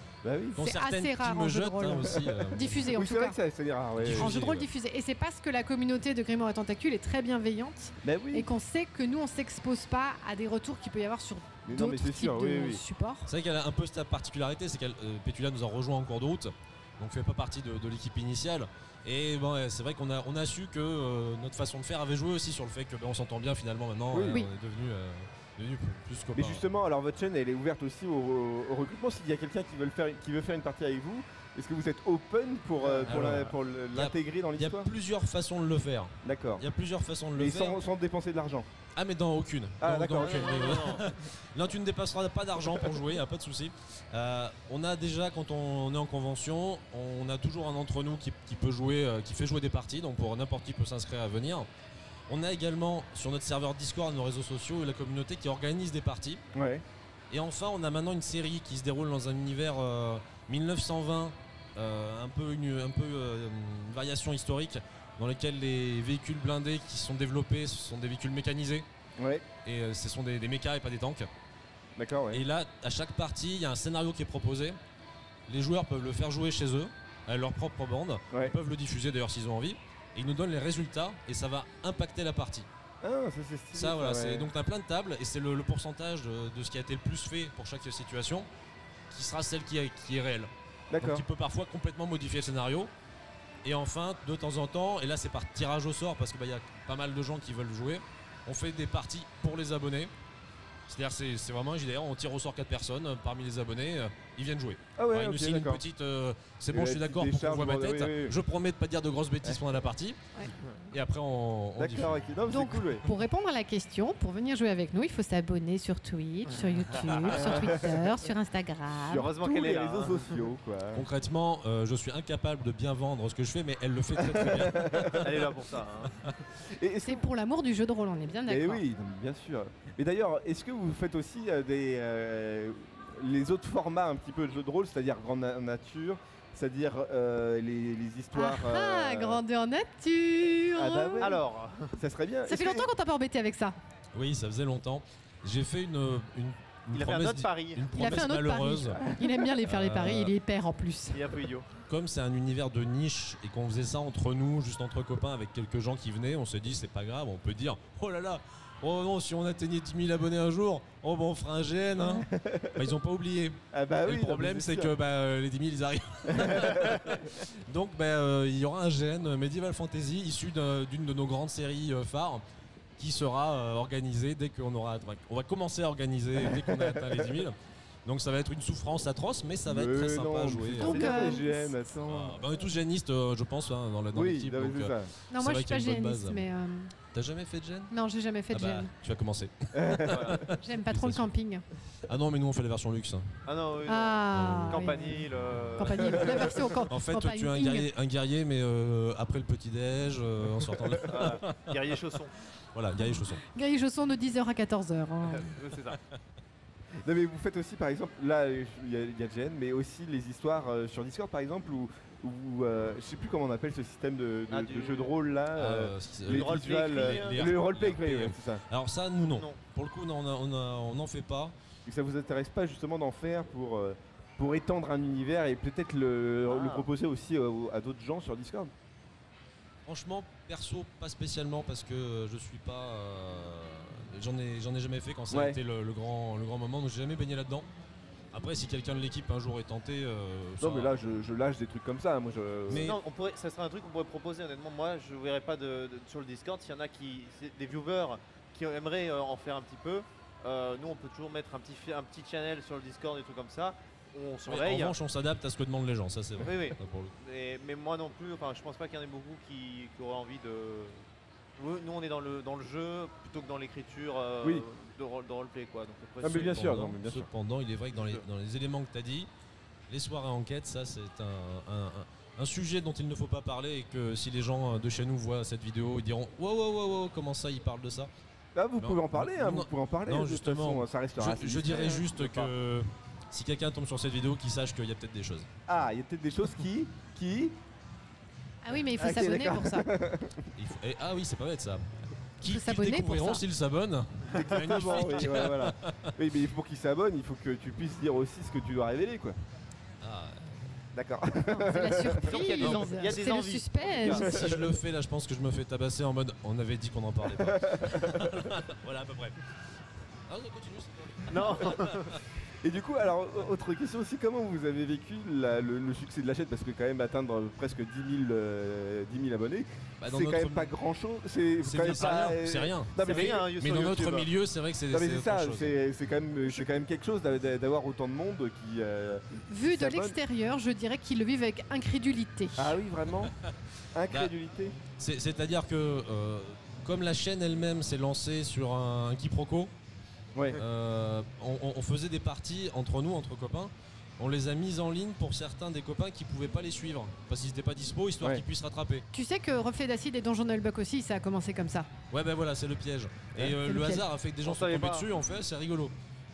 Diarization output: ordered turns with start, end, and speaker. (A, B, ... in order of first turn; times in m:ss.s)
0:00.2-0:00.6 A
0:00.6-0:02.9 B
0:00.6-0:03.4 C
0:02.9-0:04.4 A
0:04.0-0:04.7 B
0:04.1-0:13.3 C
0:08.0-0:08.5 A
0:11.7-0:12.8 A
0:13.3-0:26.6 B
0:24.1-0:24.4 A
0:26.3-0:34.9 A
0:33.1-0:37.8 B
0:36.2-0:36.6 A
0:37.4-0:38.7 A
0:39.0-0:51.7 B
0:39.8-0:40.9 A
0:40.2-0:41.1 D
0:52.3-0:56.4 B
0:56.5-0:56.8 A
0:57.3-1:08.9 B
1:09.2-1:09.5 A
1:09.6-1:11.3 B
1:12.0-1:12.4 A
1:12.3-1:14.8 B
1:15.5-1:22.7 B
1:18.3-1:18.6 A
1:23.0-1:24.5 A
1:23.7-1:28.5 B
1:29.1-1:32.9 B
1:30.9-1:31.2 A
1:33.6-1:40.1 B
1:40.9-1:50.2 B
1:45.0-1:45.8 A
1:46.7-1:48.4 A
1:50.5-1:50.9 D
1:50.9-1:52.2 B
1:51.8-1:53.0 A
1:52.5-1:59.3 C
1:57.1-1:57.6 D
1:57.3-1:57.8 A
1:59.0-2:01.1 A
1:59.1-2:00.5 D
2:00.9-2:05.3 B
2:04.4-2:05.0 A
2:05.2-2:06.2 D
2:06.8-2:07.3 A
2:07.0-2:08.8 C
2:08.5-2:19.4 A
2:18.3-2:21.3 C
2:20.8-2:21.4 A
2:21.2-2:22.0 D
2:21.9-2:22.9 A
2:22.5-2:23.8 C
2:24.1-2:29.0 B
2:26.9-2:27.9 D
2:27.9-2:31.2 C
2:29.6-2:30.3 B
2:31.1-2:31.7 D
2:31.9-2:52.4 B
2:42.0-2:42.9 A
2:43.7-2:44.9 A
2:46.3-2:46.8 A
2:53.0-3:01.3 B
2:56.5-2:57.2 A
2:59.7-3:02.5 A
3:00.8-3:01.7 C
3:02.0-3:06.5 B
3:04.1-3:05.1 A
3:05.3-3:06.9 C
3:07.1-3:07.9 B
3:07.9-3:08.9 C
3:08.5-3:11.3 B
3:09.7-3:10.4 A
3:10.1-3:10.4 D
3:10.5-3:11.6 C
3:12.1-3:13.3 B
3:13.5-3:16.6 D
3:13.9-3:15.2 C
3:14.3-3:14.9 B
3:15.8-3:17.9 C
3:16.9-3:21.7 B
3:21.0-3:22.4 D
3:22.7-3:23.4 B
3:23.1-3:25.5 C
3:25.2-3:26.0 D
3:27.0-3:38.6 A
3:34.5-3:35.2 D
3:35.5-3:41.6 B
3:36.3-3:37.6 D
3:39.3-3:39.6 D
3:41.9-3:48.7 A
3:46.5-3:46.9 D
3:49.8-3:57.7 B
3:55.3-3:55.6 A
3:58.3-4:01.0 B
4:00.6-4:02.9 A
4:02.7-4:03.0 B
4:02.7-4:15.0 D
4:14.5-4:17.1 B
4:16.4-4:21.0 D
4:21.6-4:26.5 D
4:26.2-4:27.3 A
4:26.3-4:29.3 B
4:27.9-4:28.2 D
4:29.9-4:38.1 B
4:38.6-4:42.5 A
4:38.8-4:45.5 B
4:45.7-4:47.6 A
4:48.6-4:49.9 C
4:49.0-4:50.5 A
4:50.6-4:51.9 B
4:52.4-4:56.1 B
4:52.4-4:53.4 C
4:54.3-4:59.4 A
5:00.0-5:00.7 B
5:00.9-5:02.5 A
5:01.4-5:04.5 C
5:02.2-5:04.4 D
5:02.6-5:02.9 B
5:04.1-5:09.4 B
5:04.2-5:04.6 A
5:07.4-5:08.2 A
5:10.3-5:12.2 B
5:11.3-5:12.2 D
5:12.6-5:24.3 A
5:20.0-5:20.7 B
5:21.6-5:25.8 B
5:23.0-5:24.2 D
5:24.9-5:30.2 A
5:29.5-5:32.7 C
5:32.6-5:33.3 A
5:33.2-5:33.5 B
5:33.9-5:34.8 A
5:35.0-5:39.7 B
5:40.3-5:40.6 A
5:40.5-5:49.1 B
5:49.1-5:51.9 C
5:52.1-5:55.9 B
5:53.6-5:54.0 C
5:54.4-5:55.1 D